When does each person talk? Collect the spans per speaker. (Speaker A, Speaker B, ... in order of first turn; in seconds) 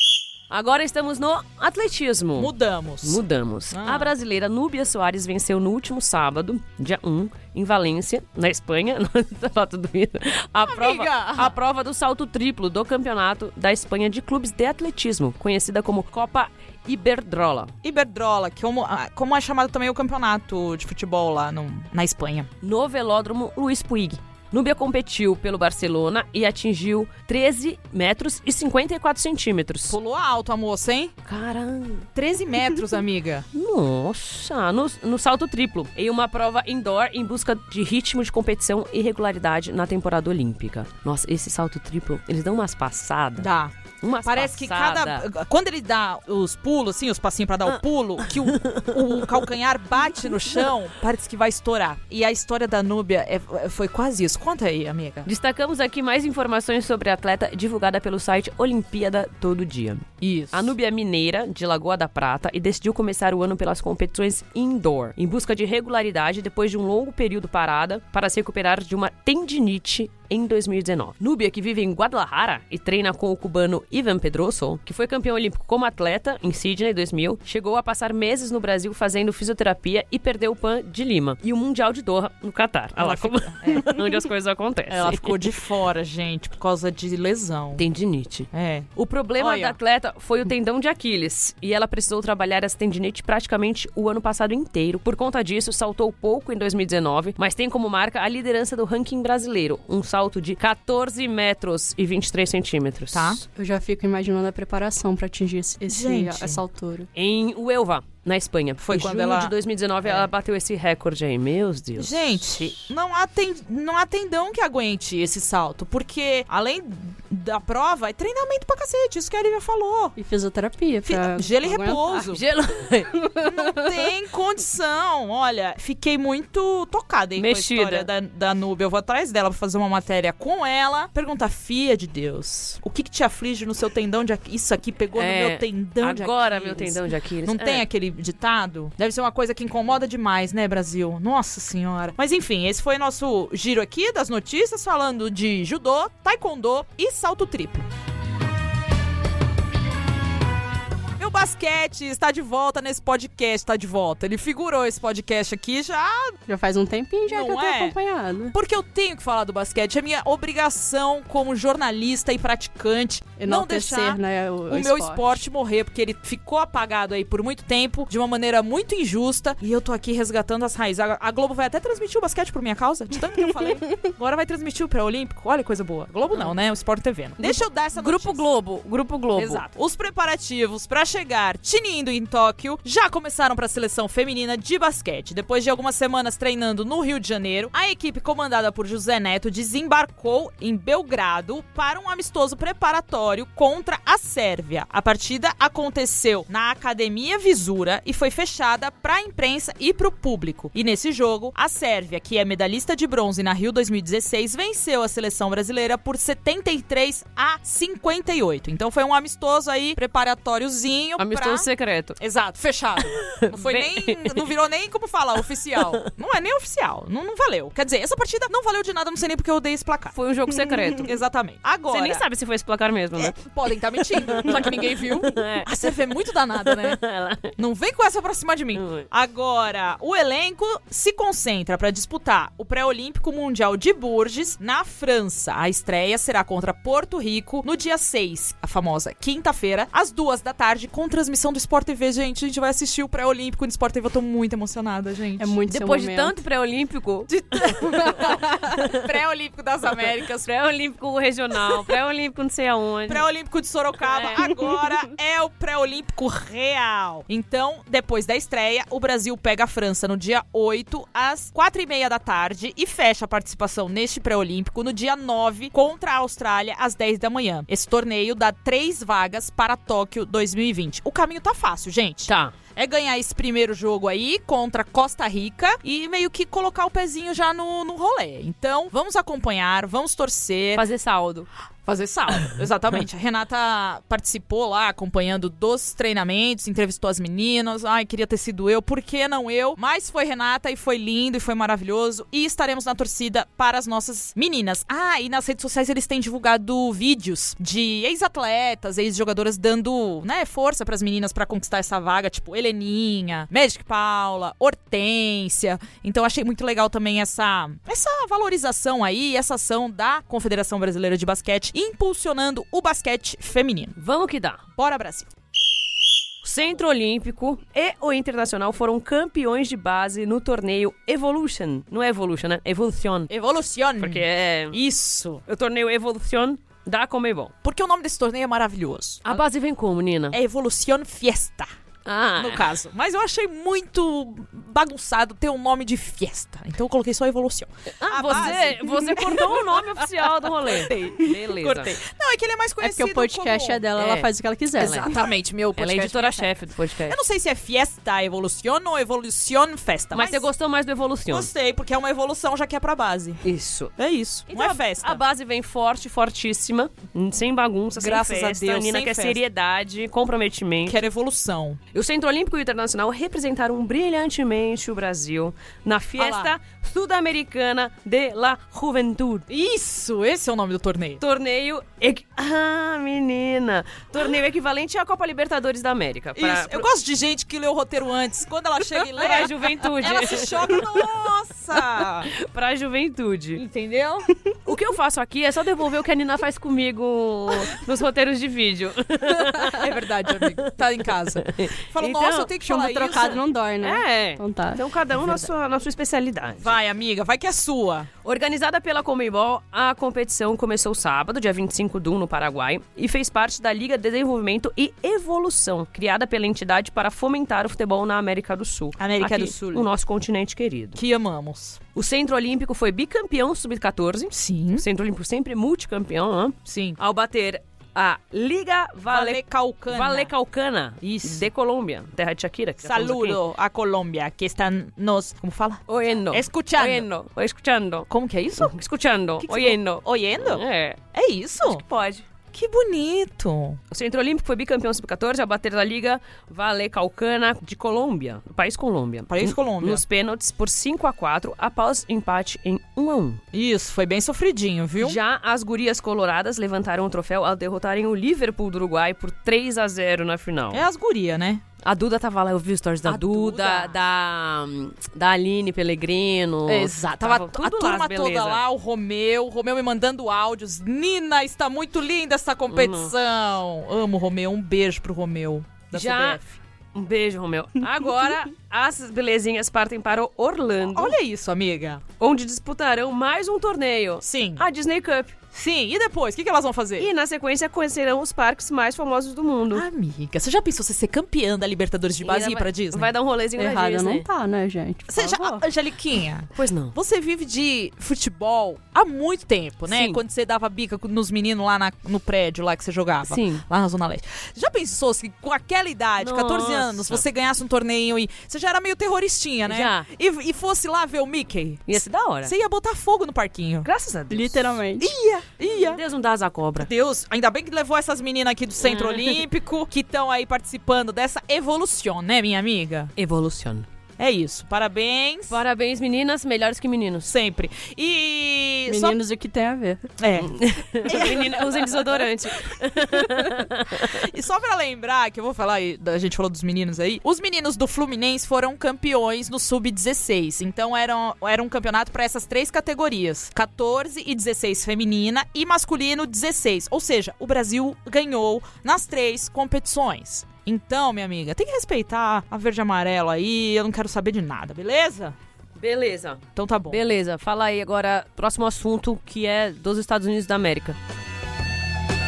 Speaker A: 0.5-17.7, 22.6-30.0, 31.3-32.1, 33.5-43.5, 44.0-45.3, 48.2-48.9, 55.2-85.5, 87.8-103.4, 107.2-112.3, 122.2-123.2, 127.4-128.1, 135.2-137.8, 177.4-179.6, 211.2-212.2, 213.1-214.5, 220.1-221.2, 221.9-223.5, 224.1-227.5, 228.8-229.1, 245.7-249.1, 250.1-253.2, 254.0-254.8, 272.3-272.5, 280.8-281.5, 314.0-314.6, 316.4-323.3, 324.0-324.8, 325.5-327.5, 329.2-330.4, 332.1-332.7, 338.0-342.0, 344.0-345.1, 345.8-347.2, 350.1-351.5, 353.4-353.9, 354.5-361.0, 361.9-369.5, 371.2-376.9, 378.9-381.2, 381.7-383.6, 384.7-392.5, 393.8-396.7, 398.2-411.0, 411.9-423.4, 425.9-431.0, 431.6-432.2, 433.9-443.4, 445.0-450.9, 451.8-458.6, 462.7-463.1, 465.9-466.4, 466.9-471.2, 472.2-475.4, 477.0-479.9, 482.2-484.3, 486.6-486.9, 489.9-490.2, 493.3-493.6, 496.2-497.2, 499.7-500.1, 501.9-502.5, 503.9-504.8, 505.8-506.9, 508.8-509.4, 513.2-513.9, 515.5-517.3, 520.4-524.3, 545.8-551.0
Speaker B: 2.4-4.1, 10.6-11.6, 17.8-22.5, 29.9-31.1, 32.1-33.5, 43.4-55.3, 60.2-60.7, 83.0-84.0, 84.9-87.8, 88.5-89.8, 103.1-103.4, 105.9-106.6, 108.8-110.3, 112.0-120.2, 121.0-122.4, 123.4-147.9, 151.2-156.4, 157.3-158.0, 158.5-178.4, 179.4-211.7, 212.2-220.1, 221.0-222.2, 223.2-227.0, 227.6-245.6, 247.3-250.5, 253.1-280.8, 281.9-314.0, 314.8-315.3, 323.3-325.4, 327.6-329.4, 330.3-331.7, 332.4-343.9, 344.8-346.5, 347.1-350.5, 351.3-353.4, 354.0-355.2, 358.0-359.4, 360.9-361.8, 366.2-366.5, 369.5-371.2, 376.4-382.3, 383.6-384.3, 389.5-393.4, 396.6-398.1, 409.0-409.9, 411.0-411.8, 414.3-414.9, 416.7-417.0, 419.1-420.3, 421.0-421.5, 422.8-427.1, 428.1-428.8, 429.4-430.6, 431.1-431.8, 432.5-433.8, 439.3-440.0, 443.5-445.2, 450.7-451.6, 453.1-454.0, 456.7-466.6, 470.9-472.0, 474.2-474.6, 475.5-477.1, 479.7-483.1, 485.1-503.9, 505.0-506.0, 506.8-513.1, 514.2-515.6, 517.2-519.2, 520.2-522.2, 523.9-545.4, 546.6-547.0
Speaker C: 103.6-107.1, 120.2-122.1, 123.2-123.6, 156.5-158.6, 163.4-165.4, 245.4-246.4, 342.8-345.1, 392.6-394.8, 483.6-485.6, 504.3-505.1, 518.9-520.0